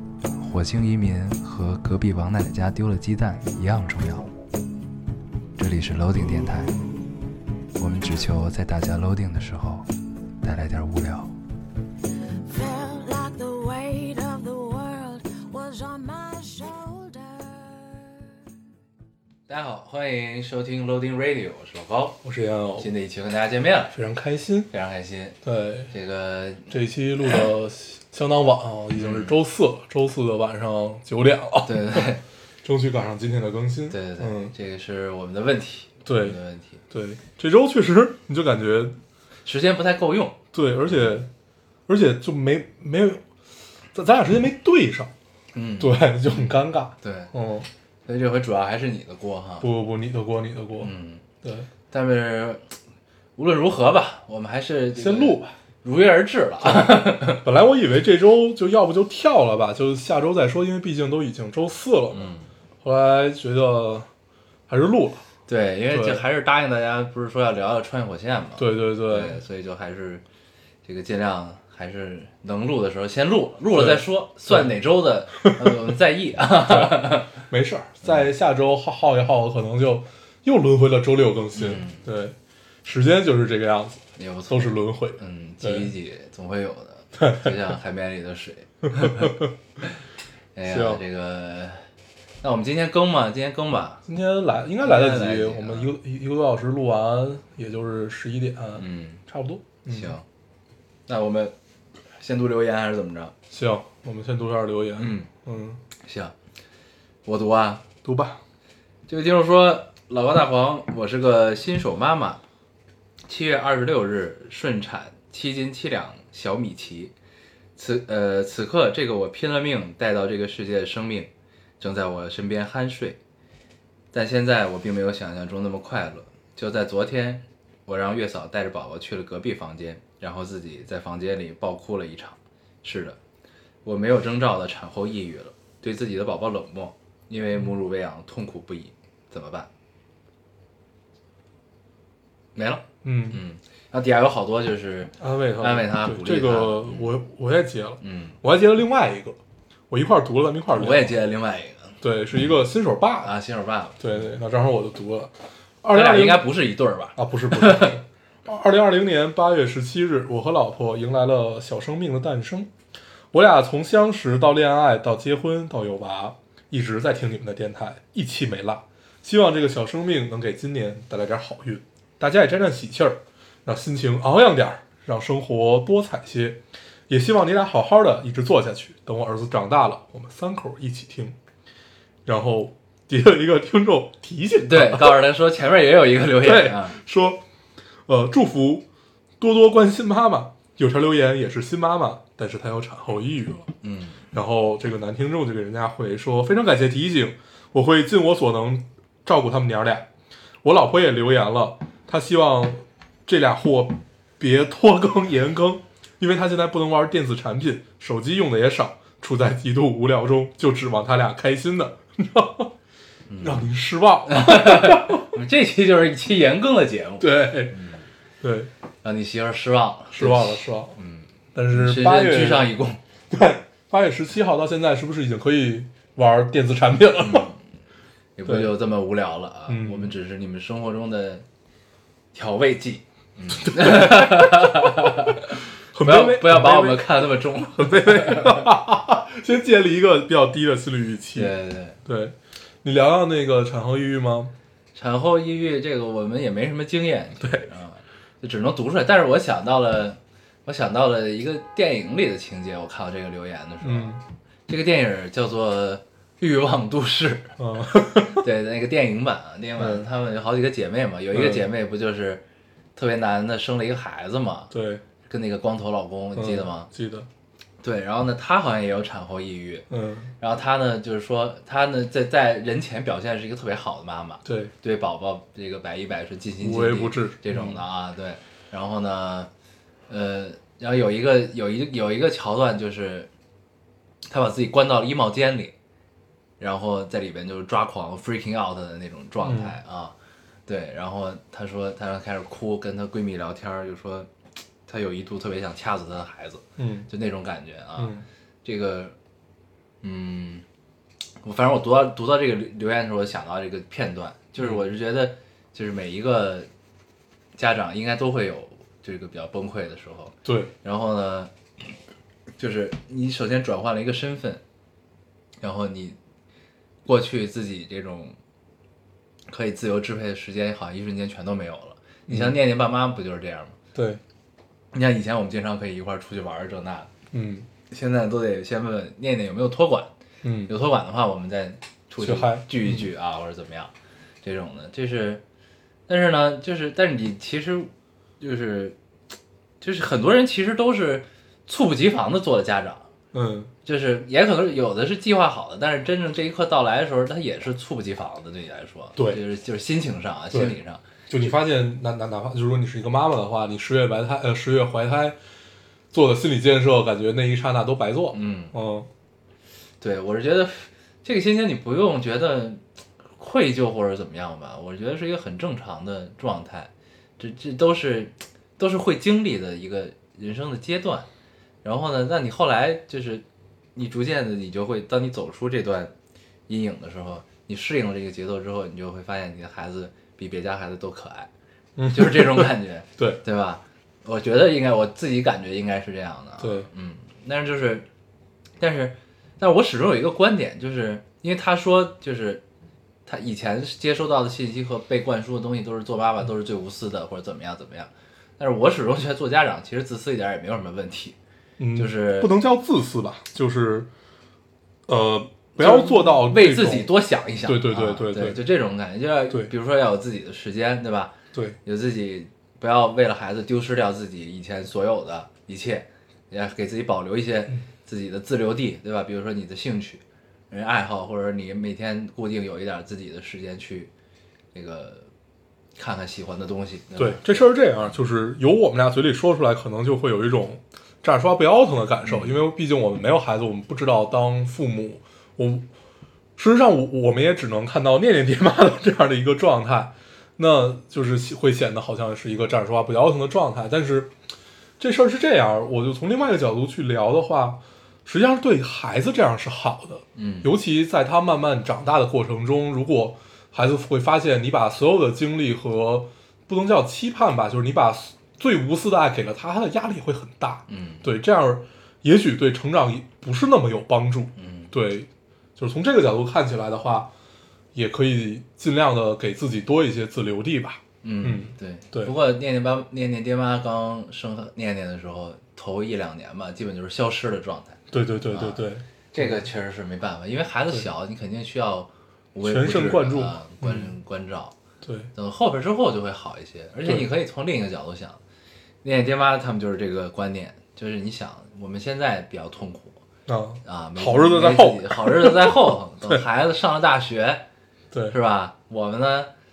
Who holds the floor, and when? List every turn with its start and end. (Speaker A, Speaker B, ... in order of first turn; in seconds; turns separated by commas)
Speaker A: 0.4-4.3, Speaker A: 5.6-6.8, Speaker A: 7.8-9.9, Speaker A: 10.4-11.3, Speaker B: 12.4-18.2, Speaker A: 19.5-22.2, Speaker C: 22.2-22.9, Speaker A: 22.8-23.9, Speaker C: 23.9-24.7, Speaker A: 24.7-25.4, Speaker C: 25.4-25.9, Speaker A: 25.9-26.7, Speaker C: 26.7-34.5, Speaker A: 28.9-29.3, Speaker A: 31.6-32.2, Speaker A: 33.9-36.8, Speaker C: 36.0-36.4, Speaker C: 36.9-39.0, Speaker A: 39.5-40.4, Speaker C: 40.5-41.3, Speaker C: 41.9-43.2, Speaker C: 43.9-45.1, Speaker A: 45.5-46.4, Speaker C: 45.8-47.7, Speaker A: 47.0-47.3, Speaker A: 48.0-49.7, Speaker C: 49.6-51.7, Speaker A: 50.8-51.2, Speaker A: 51.9-52.6, Speaker A: 53.4-57.4, Speaker C: 55.0-55.5, Speaker C: 56.6-62.3, Speaker A: 62.1-62.5, Speaker C: 62.8-64.1, Speaker C: 64.7-65.2, Speaker A: 65.5-70.2, Speaker C: 65.9-66.2, Speaker C: 68.6-69.3, Speaker A: 70.8-77.4, Speaker C: 73.7-74.7, Speaker C: 76.7-77.0, Speaker C: 77.5-85.9, Speaker A: 78.0-78.3, Speaker A: 81.5-82.0, Speaker A: 84.2-89.3, Speaker C: 87.2-87.5, Speaker C: 89.0-89.5, Speaker A: 90.5-91.8, Speaker C: 90.7-91.0, Speaker A: 92.4-94.0, Speaker C: 94.0-100.1, Speaker A: 94.8-95.9, Speaker A: 98.8-99.2, Speaker A: 99.9-100.2, Speaker A: 101.1-101.5, Speaker A: 102.2-103.3, Speaker C: 103.5-105.8, Speaker A: 105.0-105.3, Speaker A: 106.0-106.3, Speaker A: 107.2-107.8, Speaker C: 108.0-108.4, Speaker A: 109.1-112.4, Speaker A: 113.3-117.1, Speaker A: 117.8-123.2, Speaker A: 124.1-133.2, Speaker A: 133.8-139.7, Speaker A: 142.5-147.1, Speaker C: 143.0-143.4, Speaker C: 145.2-149.4, Speaker A: 148.0-148.4, Speaker C: 149.9-151.2, Speaker A: 150.7-151.9, Speaker C: 152.0-153.3, Speaker A: 153.2-154.0, Speaker C: 154.0-156.5, Speaker A: 155.9-157.9, Speaker C: 157.2-162.7, Speaker C: 163.3-181.4, Speaker C: 182.2-185.2, Speaker A: 184.6-187.0, Speaker C: 186.4-187.4, Speaker C: 188.1-188.8, Speaker C: 189.4-193.7, Speaker A: 193.8-194.2, Speaker C: 194.3-200.1, Speaker C: 200.6-212.7, Speaker A: 213.3-213.7, Speaker C: 213.4-215.3, Speaker A: 214.3-218.0, Speaker C: 217.2-217.7, Speaker C: 218.4-218.7, Speaker A: 219.0-223.0, Speaker C: 220.1-220.9, Speaker C: 221.5-222.7, Speaker C: 223.3-227.5, Speaker A: 227.2-227.6, Speaker A: 228.4-231.4, Speaker C: 229.7-230.1, Speaker A: 232.3-238.7, Speaker C: 233.6-235.4, Speaker C: 235.9-241.5, Speaker A: 241.3-242.0, Speaker C: 242.1-244.5, Speaker A: 244.9-257.6, Speaker C: 253.8-254.2, Speaker C: 257.6-258.4, Speaker A: 258.1-262.4, Speaker C: 259.8-260.0, Speaker C: 261.3-261.6, Speaker A: 262.9-264.7, Speaker C: 264.7-265.0, Speaker A: 265.2-266.9, Speaker C: 266.4-267.3, Speaker A: 267.8-269.9, Speaker C: 269.9-270.3, Speaker A: 270.4-279.5, Speaker C: 274.4-274.7, Speaker C: 276.6-277.8, Speaker A: 280.1-283.3, Speaker A: 284.3-285.7, Speaker A: 286.6-290.1, Speaker C: 289.4-289.8, Speaker A: 290.7-294.3, Speaker A: 294.9-299.1, Speaker C: 296.8-297.1, Speaker C: 298.0-298.2, Speaker A: 300.0-300.6, Speaker A: 301.4-306.7, Speaker A: 307.6-311.5, Speaker C: 310.4-310.7, Speaker A: 312.6-314.6, Speaker A: 315.6-316.2, Speaker A: 317.1-318.4, Speaker A: 319.5-323.8, Speaker C: 322.3-322.5, Speaker C: 323.9-324.2, Speaker A: 324.9-327.1, Speaker C: 327.3-327.7, Speaker A: 327.9-330.1, Speaker C: 330.4-330.7, Speaker A: 330.6-333.9, Speaker C: 332.2-333.0, Speaker A: 334.4-335.4, Speaker A: 336.1-338.9, Speaker A: 339.8-343.1, Speaker C: 343.3-343.7, Speaker A: 343.8-351.0, Speaker C: 351.3-355.4, Speaker C: 356.1-359.1, Speaker A: 358.3-358.7, Speaker A: 360.0-362.8, Speaker A: 363.4-371.3, Speaker A: 371.8-373.4, Speaker A: 373.9-376.1, Speaker A: 376.7-381.5, Speaker C: 382.0-383.4, Speaker A: 382.1-388.1, Speaker C: 386.6-386.9, Speaker A: 388.8-392.6, Speaker A: 393.2-401.4, Speaker C: 401.8-404.1, Speaker A: 401.9-402.5, Speaker C: 405.1-407.1, Speaker A: 405.8-424.1, Speaker C: 407.6-408.6, Speaker A: 424.7-425.3, Speaker A: 425.9-427.7, Speaker C: 427.2-435.9, Speaker A: 432.2-432.6, Speaker C: 436.6-444.3, Speaker C: 445.0-467.3, Speaker A: 450.4-450.7, Speaker A: 460.9-461.2, Speaker A: 464.6-464.9, Speaker C: 467.9-472.3, Speaker A: 471.2-484.7, Speaker C: 478.1-479.0, Speaker C: 482.6-484.1, Speaker C: 485.0-485.3, Speaker A: 485.3-488.4, Speaker A: 489.0-493.2, Speaker C: 493.5-496.4, Speaker A: 493.8-497.6, Speaker A: 498.3-499.5